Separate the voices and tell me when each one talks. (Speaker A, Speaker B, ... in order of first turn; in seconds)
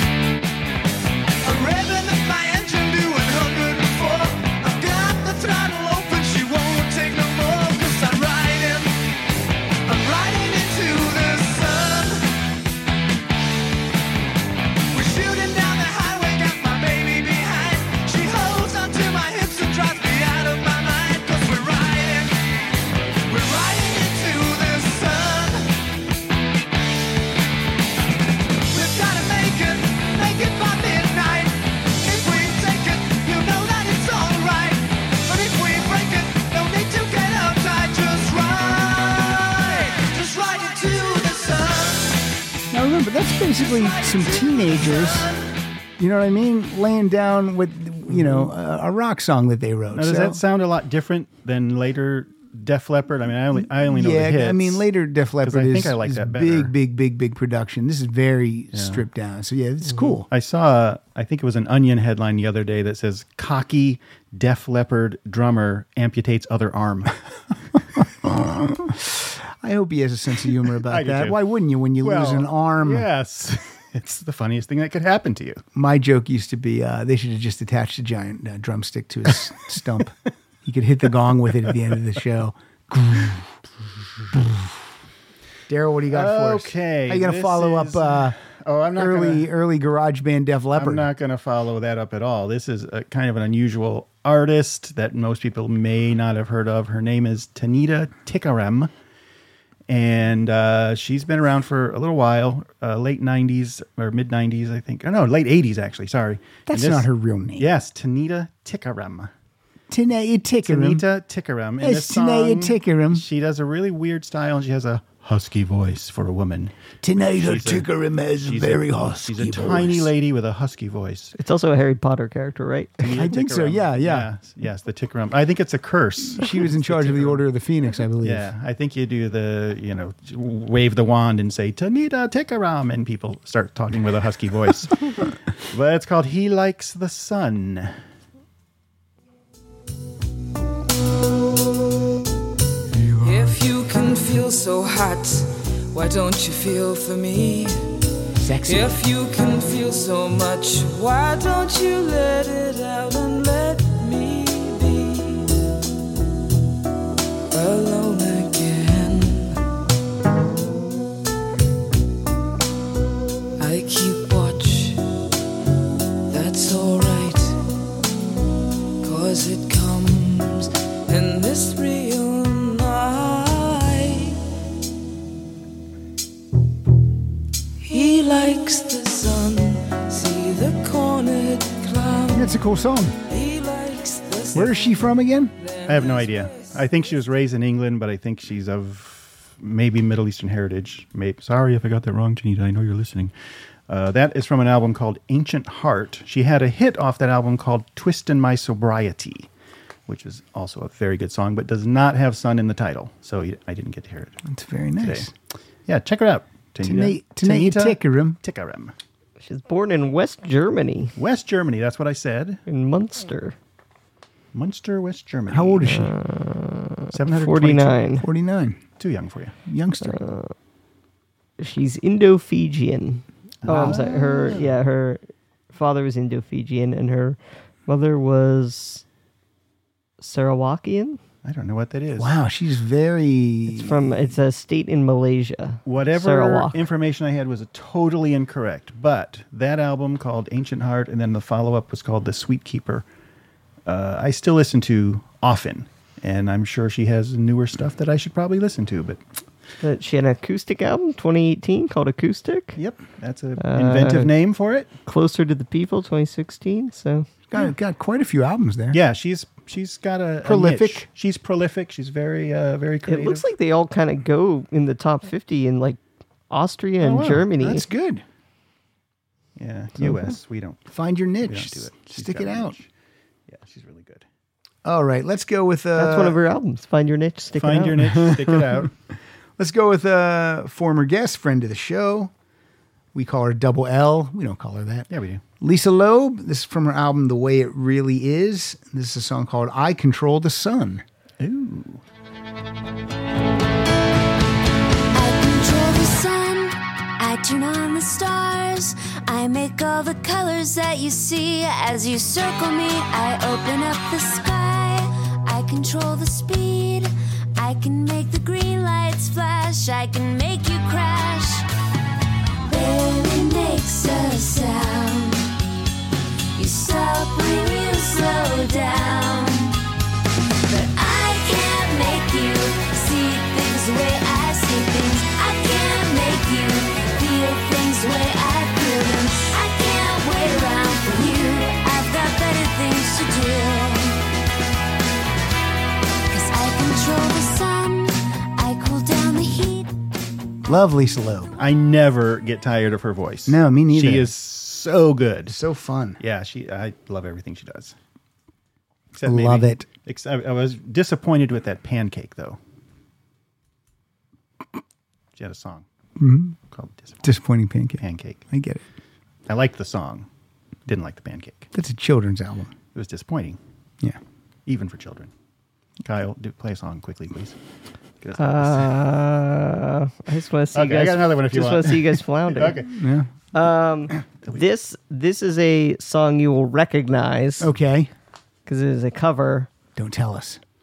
Speaker A: 1.4-8.9, 9.9-12.2, 14.9-22.3, 23.3-25.7, 28.7-42.2, 43.6-45.4
Speaker B: 42.7-45.3, 46.0-50.4, 53.5-60.3, 68.2-73.1, 75.7-83.5, 84.3-84.7, 85.7-88.3, 89.0-91.0, 106.7-107.7, 109.9-111.0, 111.8-113.2, 117.0-120.1, 123.1-124.3, 126.3-128.5, 148.4-149.0, 182.3-183.2, 184.5-185.5, 204.4-205.3, 206.8-208.4, 215.5-216.1, 218.2-218.8, 219.7-220.2, 223.7-224.0, 232.2-234.1, 257.5-259.0, 260.4-261.1, 267.3-268.2, 270.9-272.7, 274.8-276.4, 278.1-278.8, 279.6-282.3, 283.1-285.1, 285.6-291.0, 340.6-341.6, 343.5-344.3, 345.5-346.2, 349.2-349.9, 356.2-356.6, 357.2-358.8, 361.7-362.7, 372.9-373.3, 377.6-378.1, 379.9-380.6
Speaker C: 48.1-48.5, 49.9-54.8, 55.4-56.7, 58.7-59.0, 60.3-67.2, 70.9-71.4, 72.0-75.6, 86.1-89.5, 90.7-98.9, 99.9-109.3, 110.6-116.7, 117.3-121.3, 123.0-127.4, 128.2-138.0, 185.8-193.3, 193.9-199.5, 200.1-204.4, 205.0-205.3, 205.9-208.9, 211.2-212.6, 214.5-215.8, 217.1-218.0, 219.0-219.5, 223.6-224.7, 231.4-232.3, 235.8-243.1, 243.8-249.2, 252.8-254.9, 258.9-263.4, 267.1-267.4, 269.6-270.8, 271.4-272.9, 273.5-274.3, 277.6-278.9, 285.1-285.4, 291.4-292.0, 341.6-345.6, 346.2-347.9, 349.1-352.6, 355.3-355.8, 356.7-357.2, 358.0-358.4, 359.5-360.3, 360.9-361.7, 362.9-363.6, 364.6-365.3, 366.1-367.6, 368.2-369.0, 370.7-372.9
Speaker D: 121.4-123.1, 209.4-211.1, 212.7-213.6, 215.8-218.3, 220.0-220.5, 221.6-225.2, 225.7-229.0, 230.2-231.2, 233.7-236.8, 249.8-252.8, 253.6-254.3, 255.1-257.3, 263.1-266.0, 266.5-267.9, 275.9-278.1, 368.4-372.8, 373.5-377.7, 378.6-379.7
Speaker E: 143.1-148.0, 148.6-155.5, 157.5-159.6, 163.6-165.0, 166.3-167.6, 169.0-174.4, 177.8-182.5, 183.3-186.8
Speaker F: 295.1-311.7, 312.6-315.4, 316.6-319.8, 320.6-334.2, 336.3-339.9